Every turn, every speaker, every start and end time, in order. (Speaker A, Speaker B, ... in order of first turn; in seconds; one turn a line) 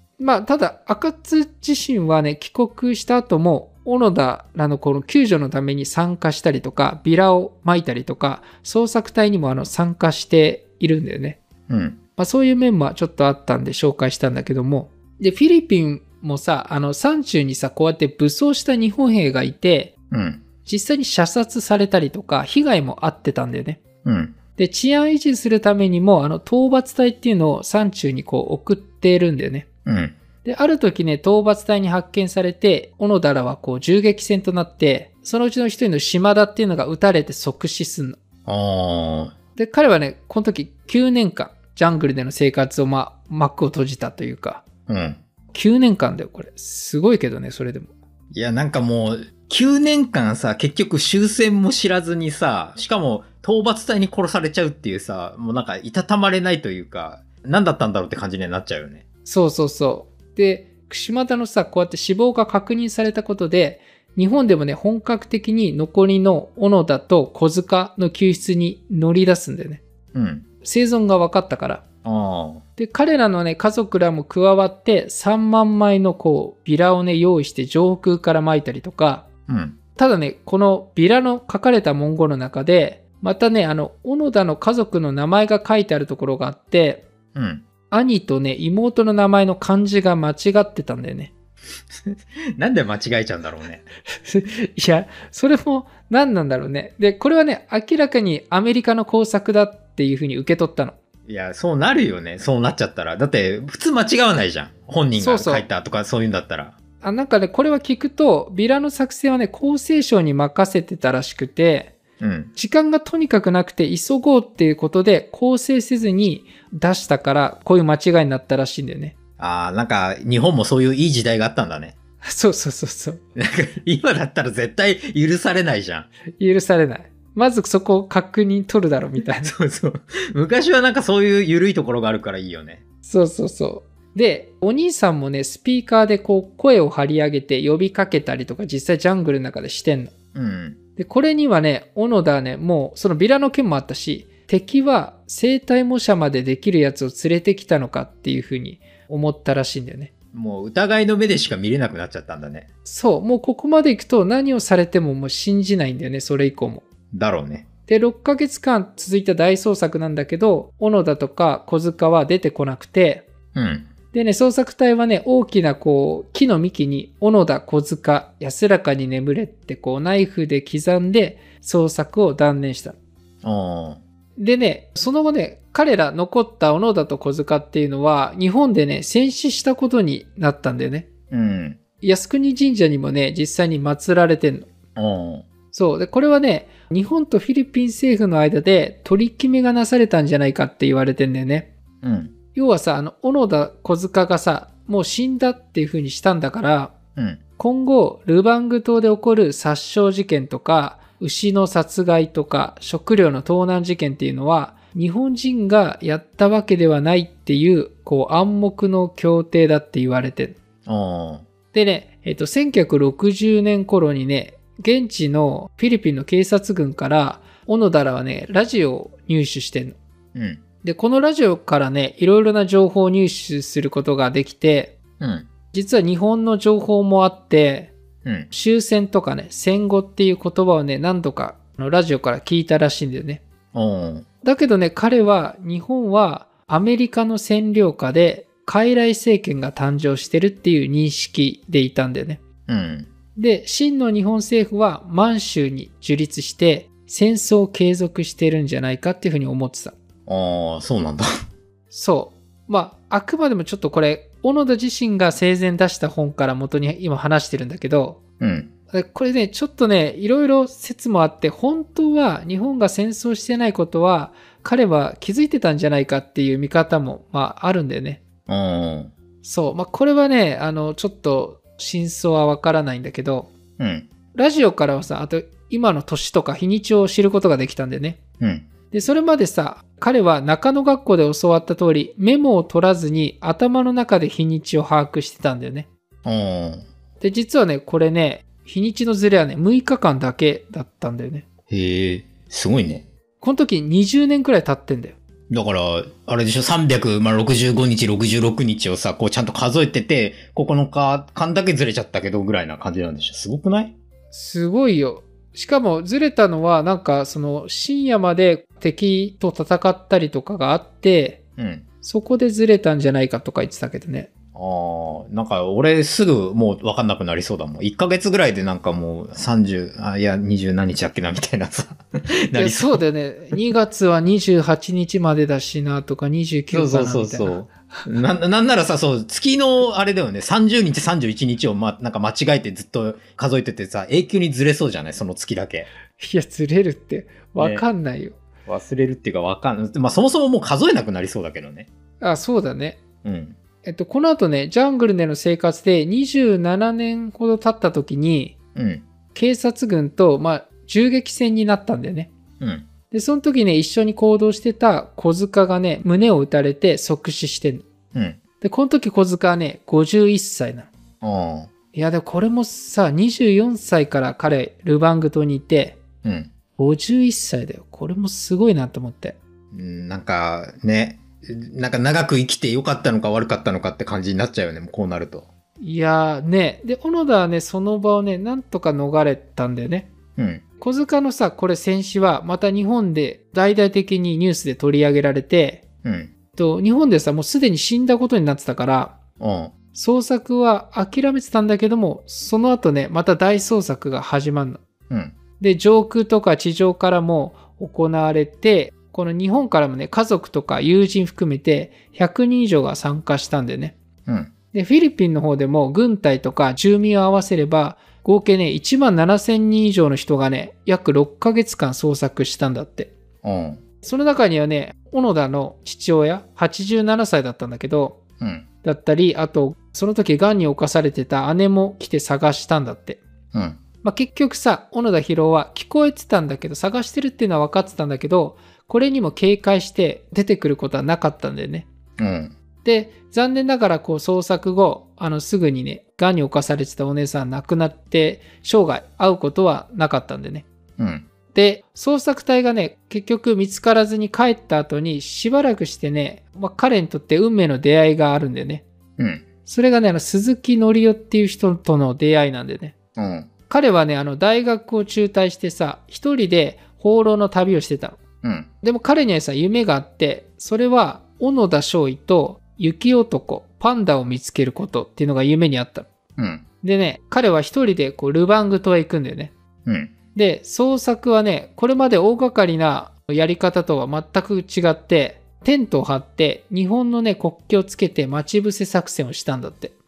Speaker A: 0.2-11.4
Speaker B: 11.7-12.0
Speaker A: 12.2-19.9
Speaker B: 20.1-20.4
Speaker A: 20.6-23.8
Speaker B: 24.1-24.4
Speaker A: 24.6-29.7
Speaker B: 29.9-30.1
Speaker A: 30.4-38.2
Speaker B: 38.5-39.4
Speaker A: 39.6-44.6
Speaker B: 44.9-45.2
Speaker A: 45.5-47.9
Speaker B: 48.3-59.0
Speaker A: 59.3-69.8
Speaker B: 70.1-70.5
Speaker A: 70.6-71.8
Speaker B: 72.0-72.6
Speaker A: 72.8-79.3
Speaker B: 79.5-79.8
Speaker A: 80.0-87.0
Speaker B: 87.3-87.6
Speaker A: 87.9-91.3
Speaker B: 91.9-93.8
Speaker A: 94.3-101.0
Speaker B: 101.3-106.8
Speaker A: 105.2-105.7
Speaker A: 107.0-112.0
Speaker B: 112.2-112.5
Speaker A: 112.6-119.1
Speaker B: 119.4-122.0
Speaker A: 122.2-123.2
Speaker B: 123.4-126.1
Speaker A: 126.4-129.5
Speaker B: 129.4-132.8
Speaker A: 133.1-140.1
Speaker B: 140.3-140.8
Speaker A: 141.0-150.1
Speaker B: 150.3-152.7
Speaker A: 152.8-156.8
Speaker B: 157.1-157.7
Speaker A: 157.9-163.3
Speaker B: 163.5-163.9
Speaker A: 164.1-173.0
Speaker B: 173.4-174.0
Speaker A: 174.4-181.1
Speaker B: 181.3-181.8
Speaker A: 182.0-184.7
Speaker B: 185.0-185.4
Speaker A: 185.7-191.7
Speaker B: 192.0-192.3
Speaker A: 192.6-196.9
Speaker A: 197.6-210.6
Speaker B: 210.9-211.4
Speaker A: 211.7-220.0
Speaker B: 220.3-220.6
Speaker A: 220.8-225.0
Speaker B: 225.2-225.5
Speaker A: 225.7-227.9
Speaker B: 228.2-228.5
Speaker A: 228.5-233.4
Speaker B: 233.7-234.3
Speaker A: 234.4-242.4
Speaker B: 242.7-243.1
Speaker A: 243.4-250.0
Speaker B: 250.3-251.3
Speaker A: 251.9-258.2
Speaker B: 258.4-258.7
Speaker A: 258.9-268.2
Speaker B: 268.5-269.1
Speaker A: 269.4-273.5
Speaker B: 273.8-274.1
Speaker A: 274.4-278.2
Speaker B: 278.4-278.7
Speaker A: 278.9-285.9
Speaker B: 286.2-286.9
Speaker A: 287.2-291.4
Speaker B: 291.7-293.1
Speaker A: 293.4-295.2
Speaker B: 295.5-303.9
Speaker A: 304.3-311.4
Speaker B: 311.6-311.9
Speaker A: 312.0-314.3
Speaker B: 314.6-323.0
Speaker A: 322.6-328.0
Speaker B: 326.7-335.9
Speaker A: 336.2-338.4
Speaker B: 337.6-337.8
Speaker B: 338.7-341.9
Speaker A: 342.2-343.0
Speaker B: 343.2-343.6
Speaker A: 343.8-348.6
Speaker B: 348.8-349.0
Speaker A: 349.3-352.3
Speaker B: 352.6-352.9
Speaker A: 353.1-357.9
Speaker B: 358.1-358.4
Speaker A: 358.6-360.9
Speaker B: 361.2-361.7
Speaker A: 361.9-366.0
Speaker B: 366.2-366.5
Speaker A: 366.8-369.4
Speaker B: 369.7-375.5
Speaker A: 375.8-380.1
Speaker B: 380.4-380.6
Speaker A: 380.8-385.8
Speaker B: 386.0-386.3
Speaker A: 386.6-389.2
Speaker B: 389.4-389.7
Speaker A: 389.9-394.8
Speaker B: 395.1-395.4
Speaker A: 395.6-404.0
Speaker B: 404.3-404.5
Speaker A: 404.7-413.1
Speaker B: 413.4-413.8
Speaker A: 414.0-418.2
Speaker B: 418.4-418.6
Speaker A: 418.8-423.2
Speaker B: 423.5-423.8
Speaker A: 424.0-431.9
Speaker B: 432.2-432.5
Speaker A: 432.8-440.7
Speaker B: 441.0-441.3
Speaker A: 441.5-448.9
Speaker B: 449.2-449.4
Speaker A: 449.7-452.9
Speaker B: 453.2-453.5
Speaker A: 453.7-458.2
Speaker B: 458.4-458.7
Speaker A: 458.8-466.1
Speaker B: 466.4-466.6
Speaker A: 466.8-469.5
Speaker B: 469.9-470.1
Speaker A: 470.4-479.9